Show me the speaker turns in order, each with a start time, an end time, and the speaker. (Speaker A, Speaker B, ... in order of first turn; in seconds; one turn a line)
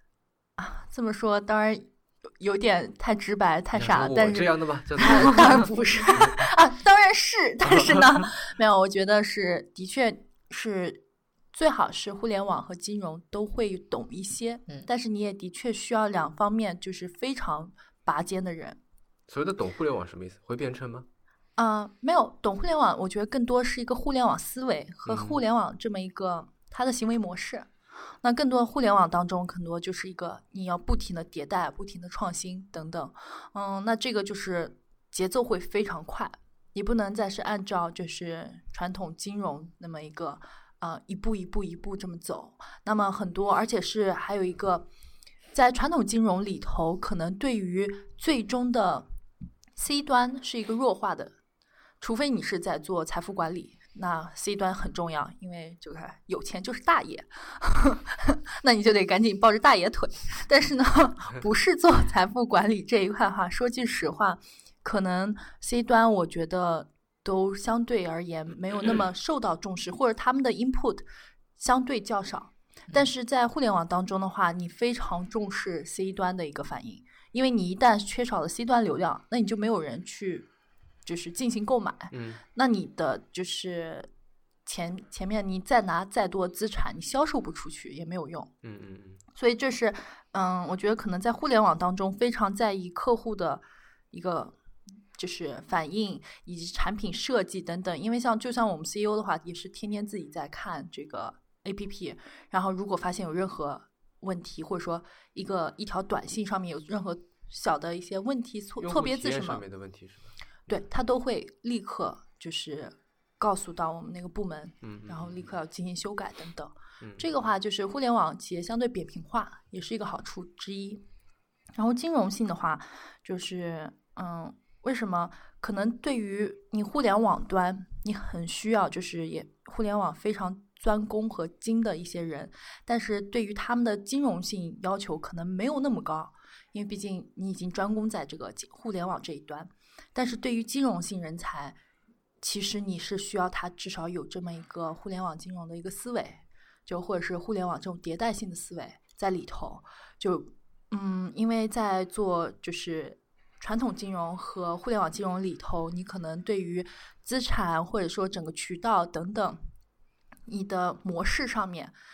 Speaker A: 0.6-18.8
Speaker B: 3.7-6.4
Speaker B: 7.6-8.3
Speaker B: 19.3-21.1
Speaker A: 21.6-27.7
Speaker B: 25.1-25.4
Speaker A: 28.2-44.9
Speaker A: 45.5-49.1
Speaker A: 49.8-51.4
Speaker A: 52.0-71.0
Speaker A: 71.5-80.5
Speaker A: 81.0-84.1
Speaker B: 82.1-82.4
Speaker A: 84.7-88.5
Speaker B: 88.6-89.2
Speaker A: 89.3-94.5
Speaker A: 95.2-109.6
Speaker B: 108.8-110.3
Speaker A: 110.7-121.0
Speaker B: 114.8-115.5
Speaker B: 117.0-117.3
Speaker A: 121.8-141.8
Speaker A: 142.4-159.6
Speaker A: 160.5-161.9